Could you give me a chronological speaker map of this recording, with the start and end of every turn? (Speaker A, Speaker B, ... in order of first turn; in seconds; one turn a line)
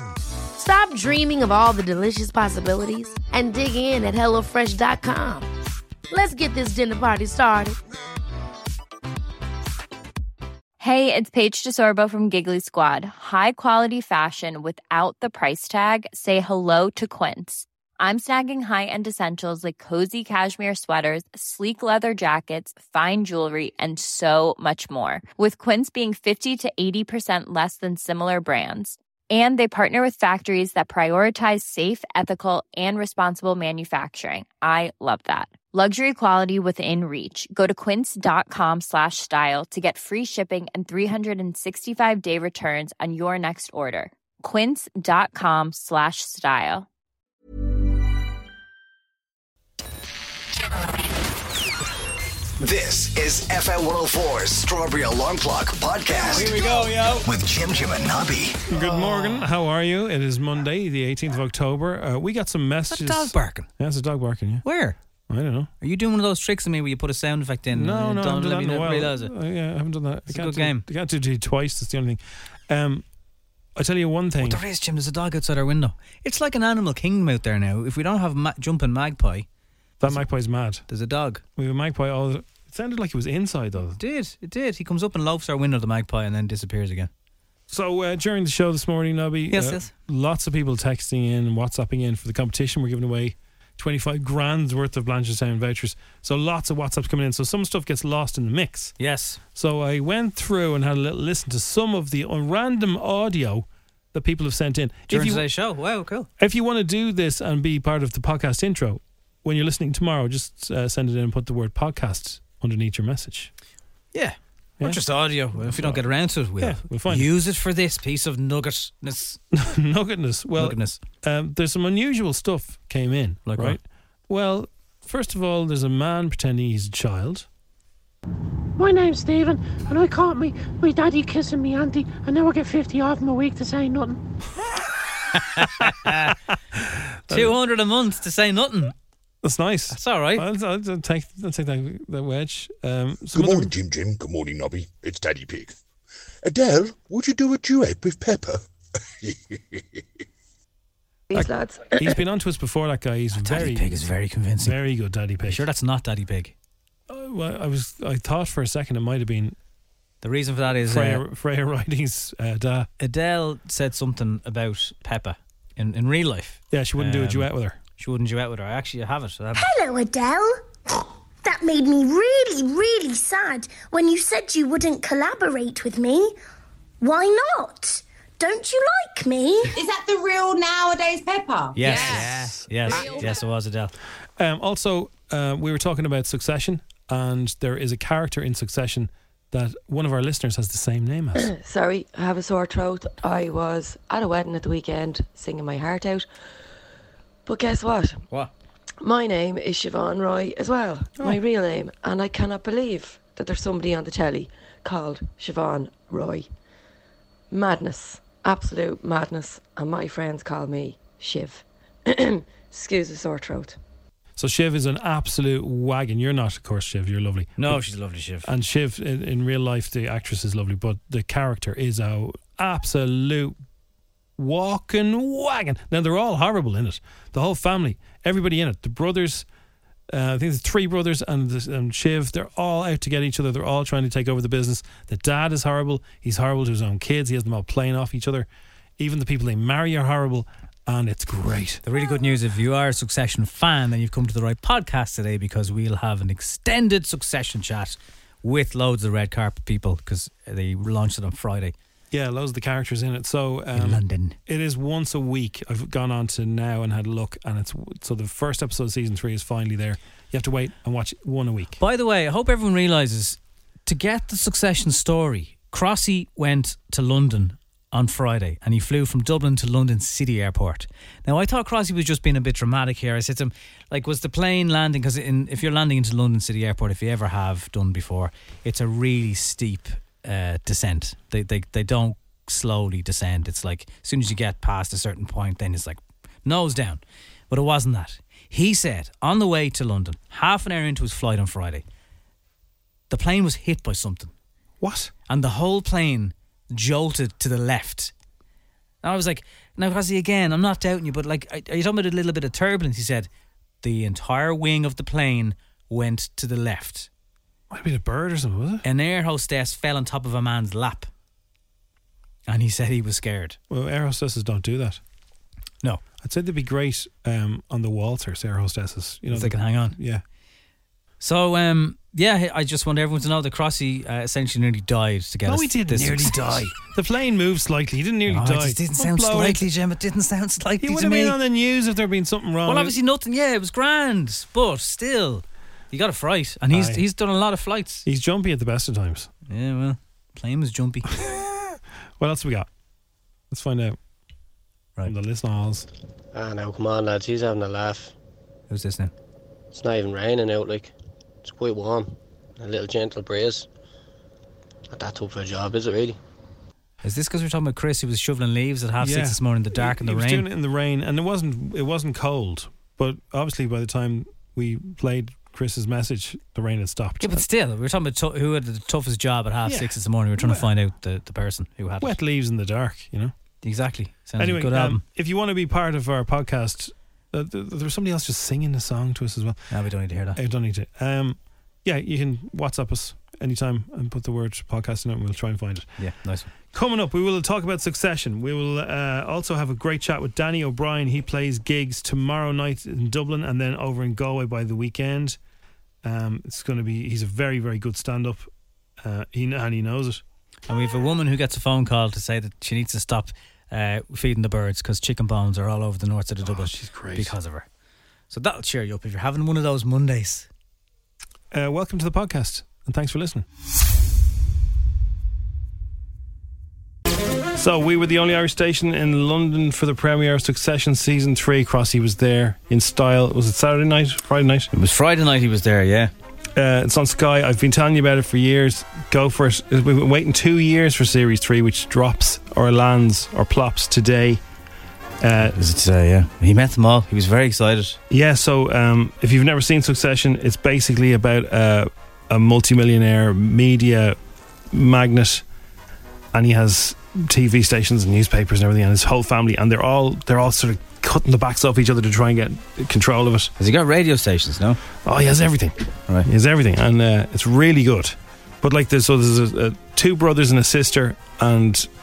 Speaker A: 0.6-5.5
Speaker A: 6.1-7.8
Speaker B: 10.8-46.9
Speaker C: 52.6-56.6
Speaker D: 56.4-57.2
Speaker C: 57.2-58.6
Speaker E: 58.7-64.7
Speaker D: 58.8-59.5
Speaker D: 62.9-63.7
Speaker D: 64.6-65.0
Speaker E: 65.3-65.7
Speaker D: 65.8-69.3
Speaker E: 67.7-73.0
Speaker D: 70.3-70.8
Speaker E: 73.8-74.6
Speaker D: 74.4-79.5
Speaker E: 80.0-80.8
Speaker D: 80.9-81.4
Speaker E: 81.6-84.0
Speaker D: 84.0-87.1
Speaker E: 87.7-98.9
Speaker D: 89.5-89.9
Speaker D: 99.0-99.4
Speaker E: 99.5-105.4
Speaker D: 105.1-106.3
Speaker E: 106.4-113.5
Speaker D: 114.1-119.4
Speaker E: 115.5-116.0
Speaker E: 116.6-117.3
Speaker E: 119.6-127.5
Speaker D: 120.6-121.0
Speaker D: 123.5-123.8
Speaker F: 128.8-134.2
Speaker D: 135.4-136.3
Speaker E: 137.3-137.5
Speaker D: 137.3-138.9
Speaker E: 139.4-143.7
Speaker D: 139.9-140.4
Speaker G: 143.3-145.7
Speaker G: 146.4-148.6
Speaker G: 149.2-150.0
Speaker H: 151.3-152.2
Speaker E: 151.3-153.9
Speaker D: 153.3-154.8
Speaker E: 154.6-155.6
Speaker D: 155.5-156.5
Speaker E: 157.1-159.6
Speaker D: 160.2-161.2
Speaker E: 160.8-162.9
Speaker D: 163.0-169.7
Speaker E: 166.7-167.8
Speaker I: 169.6-170.6
Speaker I: 171.4-176.3
Speaker I: 177.0-179.7
Speaker J: 179.7-183.2
Speaker D: 181.8-183.9
Speaker E: 184.4-191.5
Speaker H: 191.4-196.3
Speaker H: 197.5-198.2
Speaker H: 199.0-206.5
Speaker H: 207.5-213.8
Speaker E: 214.4-217.8
Speaker D: 217.6-218.5
Speaker E: 218.4-223.6
Speaker E: 224.4-229.5
Speaker E: 230.1-238.5
Speaker E: 239.0-241.8
Speaker D: 241.8-251.7
Speaker E: 252.1-261.8
Speaker D: 253.7-254.4
Speaker D: 261.8-291.8
Speaker D: 293.1-294.3
Speaker E: 294.8-295.1
Speaker D: 295.3-298.1
Speaker D: 299.0-303.3
Speaker D: 303.8-307.1
Speaker E: 307.7-308.8
Speaker D: 308.8-311.1
Speaker D: 312.5-313.6
Speaker E: 313.7-315.0
Speaker E: 316.2-320.2
Speaker D: 319.3-320.0
Speaker D: 321.2-326.6
Speaker E: 325.5-329.6
Speaker D: 328.3-331.4
Speaker E: 330.8-332.9
Speaker D: 332.7-338.1
Speaker E: 336.7-337.0
Speaker E: 338.1-339.3
Speaker D: 339.5-341.1
Speaker E: 342.2-342.7
Speaker E: 343.5-344.0
Speaker E: 345.1-345.9
Speaker K: 346.3-348.1
Speaker D: 348.7-349.1
Speaker K: 349.7-350.9
Speaker K: 351.4-353.7
Speaker K: 354.9-356.2
Speaker D: 357.0-360.5
Speaker E: 359.0-367.4
Speaker D: 367.2-372.1
Speaker E: 369.7-370.7
Speaker E: 372.0-373.3
Speaker D: 373.6-375.0
Speaker E: 374.4-379.6
Speaker D: 379.7-380.4
Speaker E: 380.4-385.9
Speaker D: 386.0-386.5
Speaker E: 386.7-395.4
Speaker E: 396.0-398.5
Speaker E: 399.0-400.2
Speaker D: 400.7-407.6
Speaker E: 406.4-407.3
Speaker D: 408.3-410.5
Speaker E: 411.5-413.4
Speaker E: 417.6-424.7
Speaker D: 424.7-426.1
Speaker E: 426.6-434.4
Speaker E: 435.2-435.6
Speaker D: 435.6-438.0
Speaker E: 438.1-444.2
Speaker E: 444.7-445.4
Speaker E: 446.3-453.5
Speaker D: 453.6-454.8
Speaker E: 455.1-461.9